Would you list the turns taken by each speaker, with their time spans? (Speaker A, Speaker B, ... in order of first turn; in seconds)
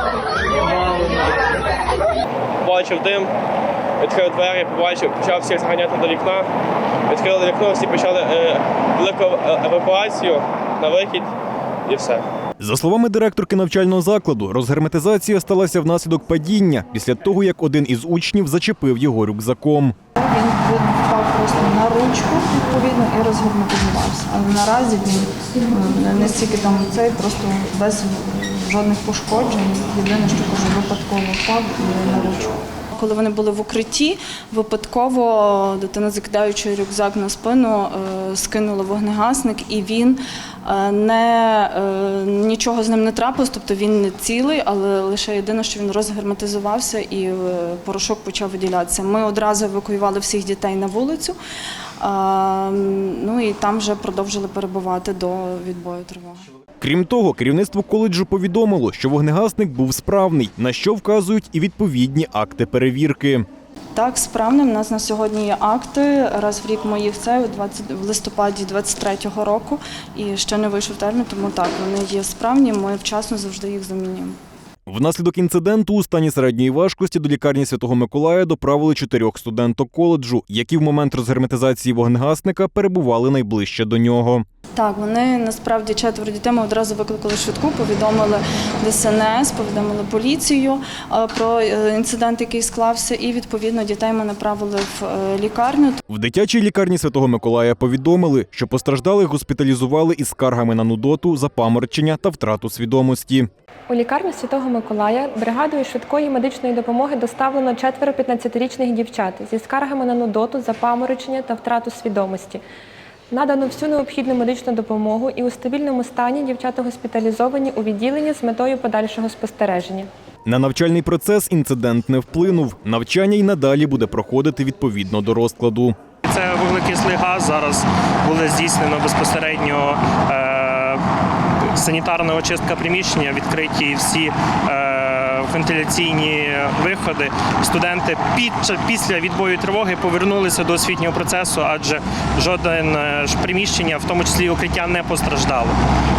Speaker A: 2.6-3.3, 4.0-6.5, 7.1-11.3, 11.9-12.2
Speaker B: 12.6-19.9, 56.8-63.5, 74.9-84.4, 96.1-103.5, 120.5-126.0
Speaker C: 20.1-51.4, 52.0-56.5, 63.9-74.4, 84.8-96.0
Speaker D: 103.9-112.6, 113.3-120.1
Speaker E: 126.2-131.0, 131.7-145.8